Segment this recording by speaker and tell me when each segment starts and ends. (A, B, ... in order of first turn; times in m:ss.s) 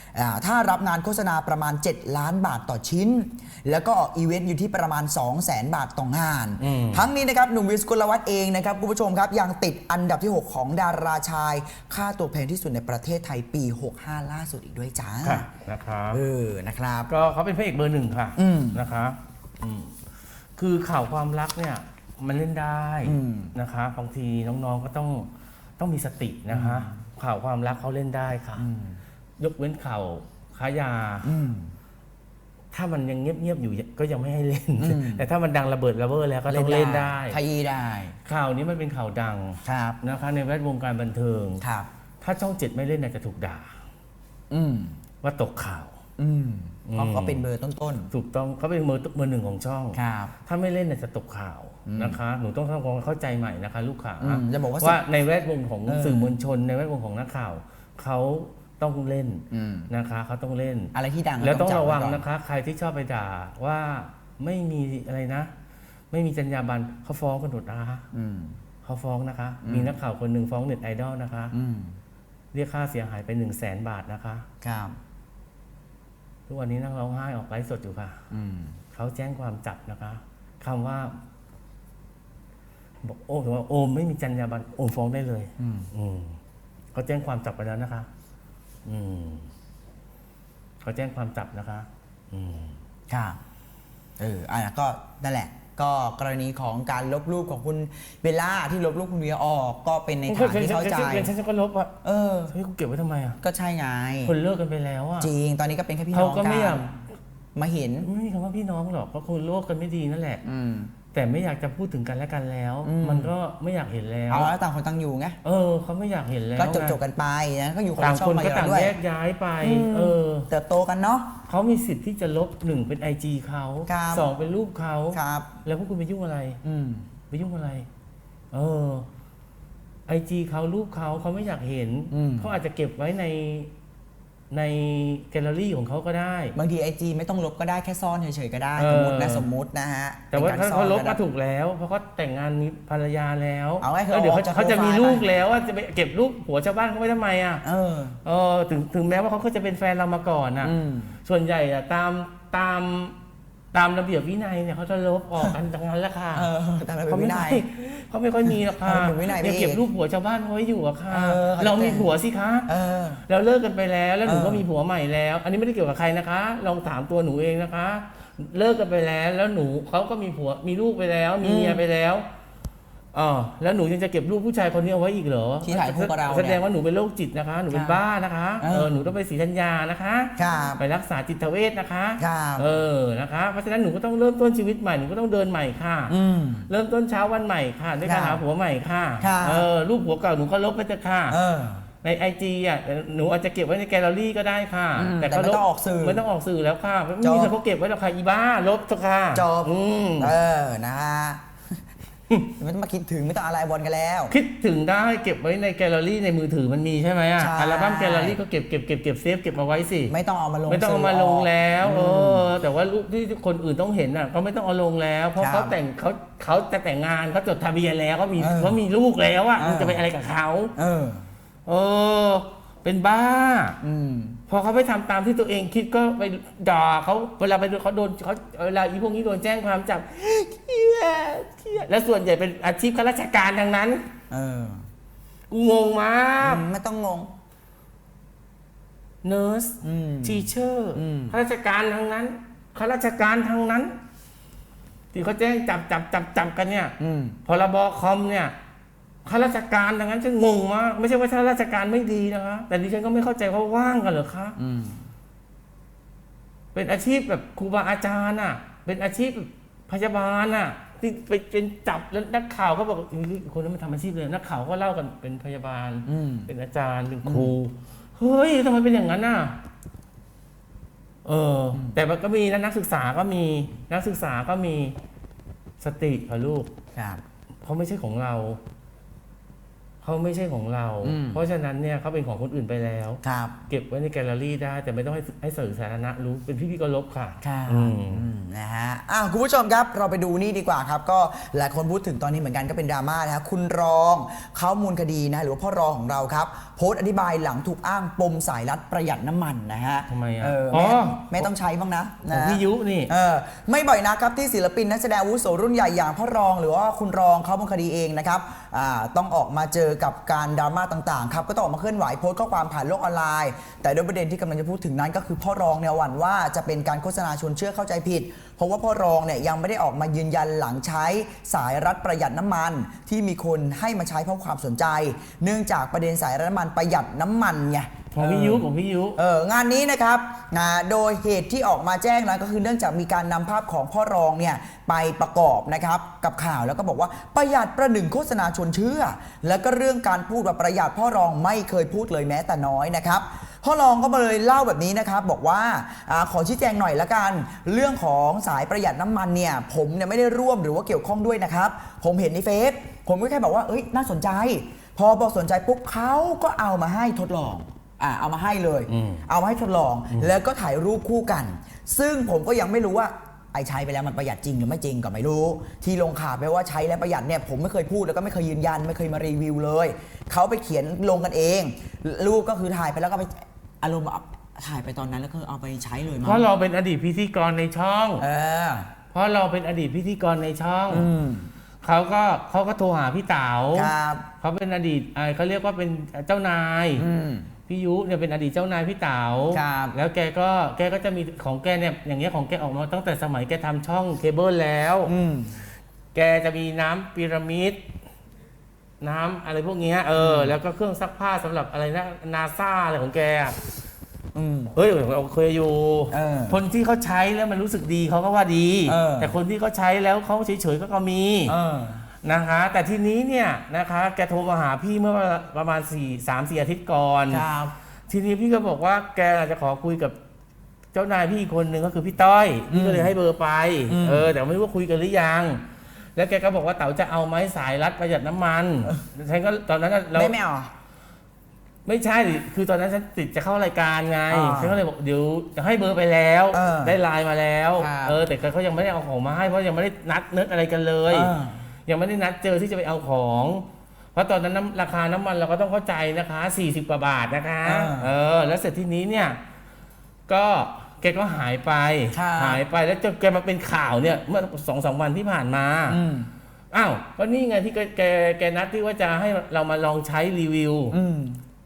0:00.1-0:15.4 A
0:06.6-0:07.1 B
0:15.2-0:16.2 B
0:16.1-0:17.1 A
0:17.1-0:20.0 B
0:18.4-0:18.8 A
0:20.6-0:28.6 B
0:23.0-0:23.5 A
0:26.5-0:27.0 A
0:28.6-0:29.0 A
0:29.4-0:31.3 B
0:31.2-0:31.7 A
0:32.7-0:37.4 B
0:34.8-0:35.2 A
0:36.5-0:38.2 A
0:38.2-0:41.6 B
0:39.6-0:40.0 A
0:41.6-0:41.9 A
0:42.2-0:43.7 B
0:44.5-0:45.0 A
0:45.2-0:45.9 B
0:46.2-0:48.1 A
0:46.9-0:47.4 B
0:48.1-1:05.5 B
0:49.9-0:50.3 A
0:51.8-0:52.2 A
0:54.2-0:55.0 A
0:55.8-0:56.3 A
0:59.5-0:59.9 A
1:00.9-1:02.2 A
1:06.1-1:08.0 B
1:08.1-1:08.6 A
1:08.8-1:11.5 B
1:09.6-1:09.9 A
1:11.5-1:12.0 A
1:12.5-1:14.4 B
1:14.6-1:14.9 A
1:16.5-1:18.2 B
1:18.3-1:18.8 A
1:18.9-1:21.2 B
1:23.0-1:26.4 B
1:25.6-1:25.9 A
1:26.9-1:28.1 B
1:28.8-1:29.5 B
1:30.8-1:32.8 B
1:33.1-1:33.4 A
1:34.2-1:41.3 A
1:40.3-1:41.9 B
1:42.0-1:42.5 A
1:42.5-1:43.4 B
1:43.4-1:44.3 A
1:44.2-1:45.3 B
1:45.2-1:46.9 A
1:46.1-1:46.9 B
1:47.5-1:48.1 A
1:48.0-1:50.4 B
1:50.4-1:50.9 A
1:51.1-1:54.5 B
1:52.8-1:53.3 A
1:54.3-1:55.4 A
1:55.4-1:57.0 B
1:56.6-1:59.0 A
1:58.0-2:00.5 B
1:59.6-2:01.3 A
2:01.5-2:06.6 B
2:03.9-2:04.3 A
2:05.1-2:05.5 A
2:06.6-2:07.1 A
2:07.3-2:07.9 B
2:08.5-2:09.0 B
2:10.1-2:13.7 B
2:12.1-2:12.6 A
2:14.5-2:16.5 B
2:16.5-2:21.2 A
2:18.8-2:19.5 B
2:20.3-2:27.6 B
2:23.8-2:25.3 A
2:27.6-2:28.2 A
2:28.2-2:33.2 B
2:30.6-2:31.1 A
2:33.7-2:36.5 B
2:36.3-2:37.6 A
2:37.1-2:42.7 B
2:38.4-2:39.8 A
2:41.1-2:42.1 A
2:42.6-2:43.2 A
2:43.2-2:52.2 B
2:44.2-2:44.6 A
2:51.4-2:51.8 A
2:53.1-3:06.1 B
2:55.6-2:56.6 A
2:57.7-2:58.0 A
2:58.6-2:58.9 A
3:00.4-3:00.8 A
3:02.2-3:02.7 A
3:06.1-3:06.7 A
3:06.7-3:11.4 B
3:08.0-3:08.4 A
3:09.2-3:09.7 A
3:11.3-3:11.8 A
3:12.0-3:20.3 B
3:15.0-3:16.2 A
3:17.2-3:17.5 A
3:19.3-3:21.4 A
3:22.6-3:24.3 A
3:24.3-3:30.1 B
3:27.4-3:28.4 A
3:30.1-3:32.5 A
3:30.7-3:40.7 B
3:35.4-3:35.8 A
3:38.4-3:38.8 A
3:39.6-3:40.0 A
3:40.8-3:41.2 A
3:41.6-3:43.8 B
3:43.8-3:44.4 A
3:44.5-3:54.0 B
3:54.3-3:54.8 A
3:55.5-3:56.6 B
3:56.4-3:57.3 A
3:59.2-4:04.0 B
3:59.8-4:01.4 A
4:05.1-4:06.9 B
4:07.0-4:07.4 A
4:07.4-4:08.5 B
4:09.2-4:14.6 B
4:14.6-4:15.1 A
4:16.7-4:29.6 B
4:26.0-4:26.5 A
4:27.2-4:27.5 A
4:31.2-4:35.0 B
4:35.8-4:36.7 B
4:36.9-4:37.2 A
4:37.6-4:38.6 B
4:40.0-4:48.3 B
4:41.0-4:41.4 A
4:43.2-4:43.6 A
4:47.4-5:28.6 A
5:00.1-5:01.5 B
5:02.3-5:03.1 B
5:28.1-5:29.2 B
5:29.2-6:16.5 A
5:58.9-5:59.2 B
6:16.2-6:18.2 B
6:18.2-6:18.9 A
6:19.1-6:21.1 B
6:20.9-6:21.5 A
6:21.8-6:27.1 B
6:23.7-6:24.3 A
6:27.0-6:27.5 A
6:27.7-6:35.1 B
6:29.5-6:30.0 A
6:35.0-6:35.6 A
6:36.1-6:37.8 B
6:39.0-6:43.6 B
6:40.1-6:40.6 A
6:44.3-6:44.7 A
6:44.8-6:51.6 B
6:46.1-6:46.6 A
6:48.9-6:49.4 A
6:51.4-6:52.1 A
6:52.2-6:57.4 B
6:57.3-6:57.7 A
6:58.1-7:00.1 B
7:00.9-7:05.6 B
7:02.7-7:03.1 A
7:03.9-7:04.3 A
7:06.2-7:10.3 B
7:10.1-7:10.7 A
7:11.8-7:21.3 B
7:14.3-7:14.8 A
7:16.5-7:17.0 A
7:17.8-7:18.2 A
7:21.1-7:21.6 A
7:21.9-7:29.4 B
7:27.6-7:28.1 A
7:30.3-7:36.0 B
7:32.1-7:32.6 A
7:35.9-7:36.3 A
7:36.7-7:41.0 B
7:40.9-7:41.4 A